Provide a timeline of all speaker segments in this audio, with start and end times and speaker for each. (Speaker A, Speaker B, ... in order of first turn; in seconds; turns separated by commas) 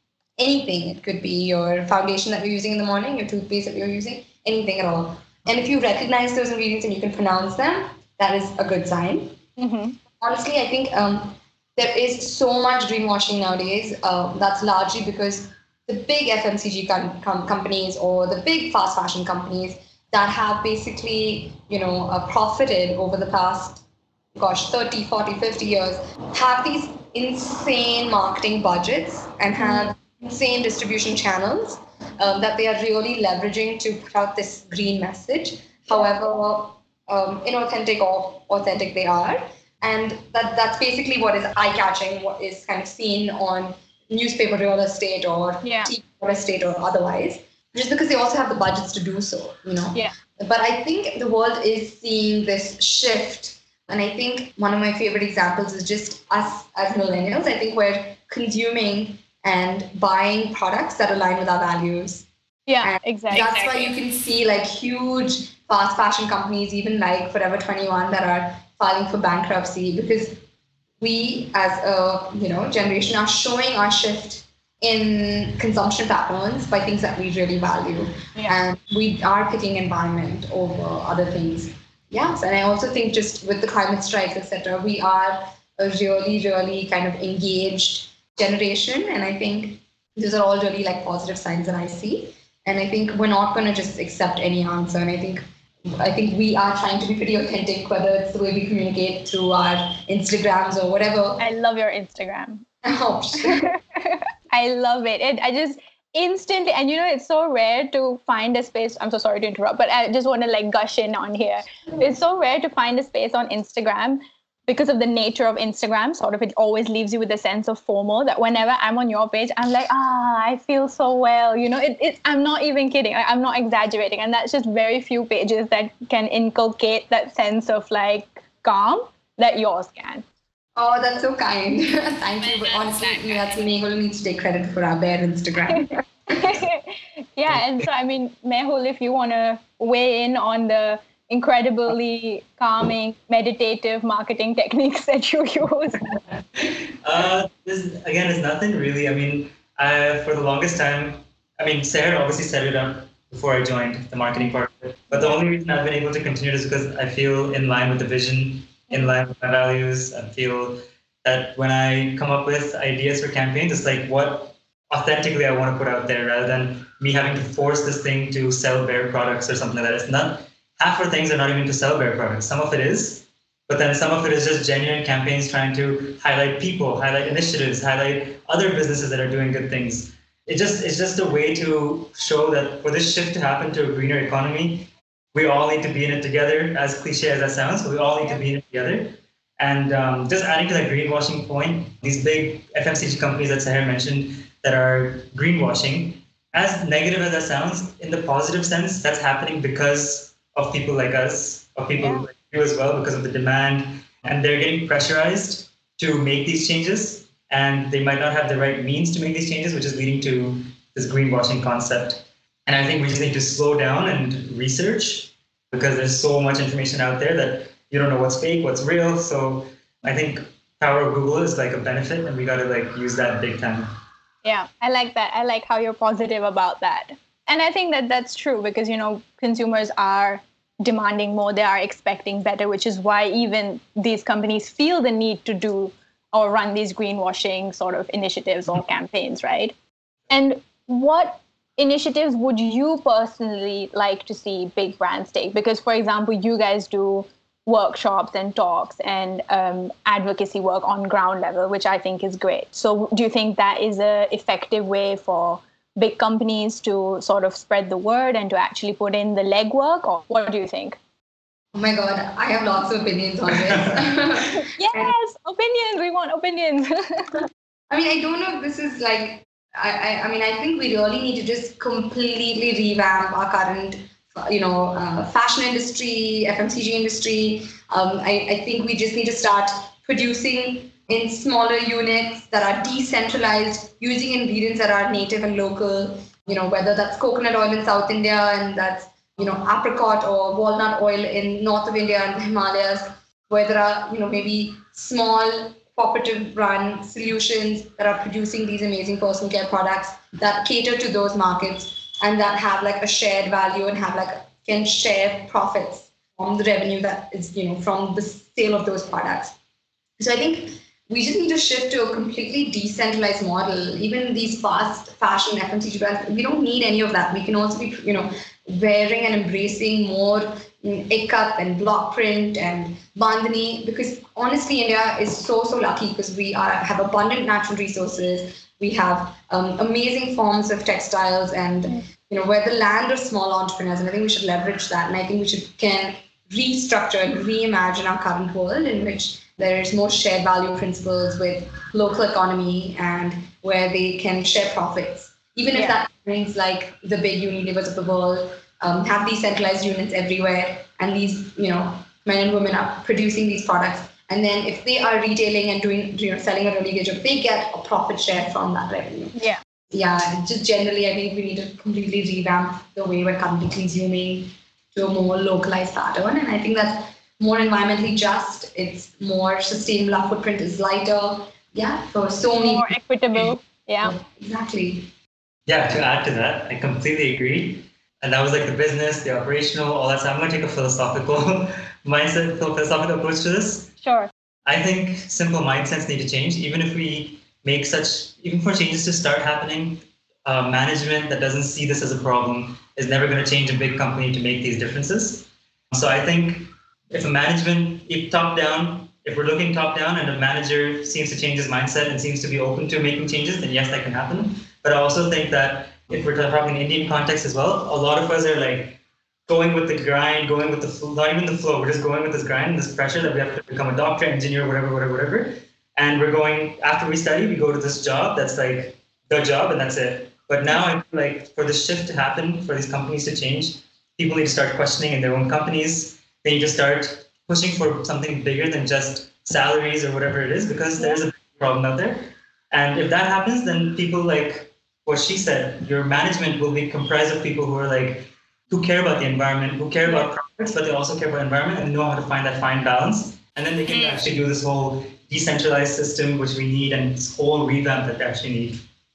Speaker A: 0.4-9.4, Speaker B: 9.6-10.0, Speaker A: 10.2-23.8, Speaker A: 24.4-62.3, Speaker B: 29.6-29.9, Speaker B: 45.6-45.9, Speaker B: 62.7-63.9, Speaker A: 62.8-70.4, Speaker A: 71.0-95.4, Speaker A: 96.0-101.4, Speaker B: 101.4-102.7, Speaker A: 102.8-103.7, Speaker B: 103.4-130.2, Speaker A: 130.8-136.4, Speaker B: 132.4-133.4, Speaker B: 135.7-146.1, Speaker C: 137.5-137.8, Speaker C: 146.6-223.9, Speaker B: 155.1-155.4, Speaker B: 202.0-202.3, Speaker B: 224.4-239.8, Speaker B: 240.3-261.0, Speaker A: 261.7-265.1, Speaker C: 263.5-264.1, Speaker B: 264.6-267.4, Speaker A: 267.9-309.6, Speaker A: 310.2-359.4, Speaker B: 345.7-346.0, Speaker B: 359.4-359.6, Speaker A: 359.9-372.9, Speaker B: 372.5-374.2, Speaker A: 374.0-375.1, Speaker C: 375.7-383.9, Speaker B: 384.0-384.3, Speaker C: 384.7-448.9, Speaker B: 443.9-444.3